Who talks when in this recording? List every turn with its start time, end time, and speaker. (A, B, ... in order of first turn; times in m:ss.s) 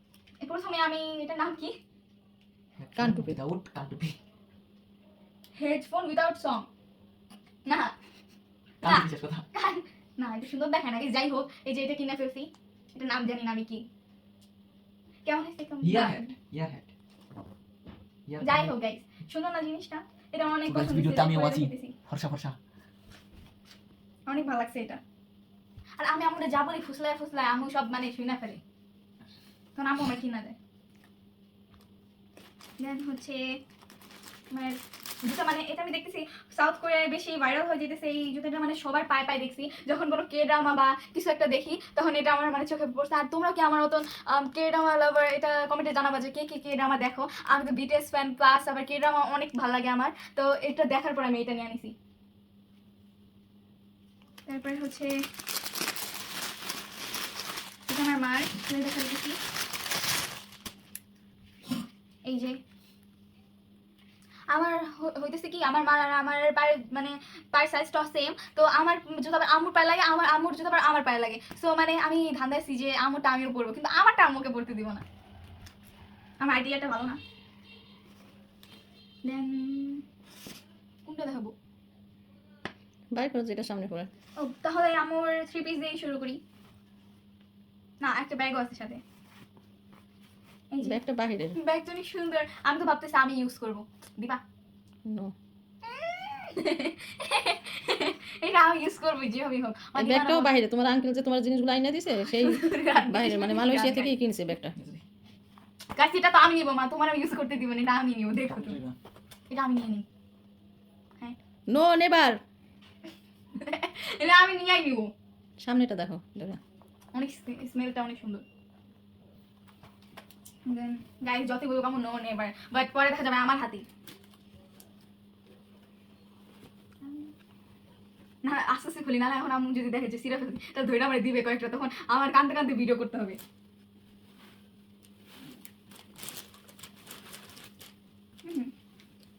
0:00.4-0:01.8 A
0:02.8-0:04.2 B
0:03.0-0:03.4 C
0:05.6-0:06.7 A
0:07.6-0:07.9 A
0:08.8-0:09.5 B
0:08.8-0:13.8 A
0:15.2-0:16.3 A
0:15.8-0:16.9 B
0:18.3-0:18.7 B
0:18.4-0:22.0 A
0:20.6-0:22.6 B
0:24.3-0:25.0 A
0:26.0-0:28.6 A
0:29.8-0:30.6 A
0:32.8-0:33.4 A
0:34.5-0:51.9 A
0:54.5-0:55.1 A
0:57.9-0:59.4 A
1:02.3-1:02.6 A
1:04.5-1:15.0 A
1:16.4-1:17.2 A
1:19.2-1:20.0 A
1:21.0-1:21.5 A
1:23.1-1:24.1 C
1:24.4-1:26.4 A
1:28.0-1:29.0 A
1:30.7-1:31.0 A
1:30.8-1:31.6 C
1:31.5-1:34.4 A
1:35.0-1:35.3 C
1:35.8-1:40.5 A
1:40.0-1:44.7 C
1:42.3-1:44.1 A
1:44.7-1:45.0 B
1:45.9-1:48.8 A
1:48.5-1:49.0 B
1:49.5-1:50.1 A
1:51.7-1:52.4 C
1:53.6-1:55.1 A
1:55.6-1:56.6 C
1:57.1-1:58.4 A
2:00.7-2:03.8 A
2:07.0-2:07.3 A
2:08.4-2:13.4 A
2:18.4-2:18.7 A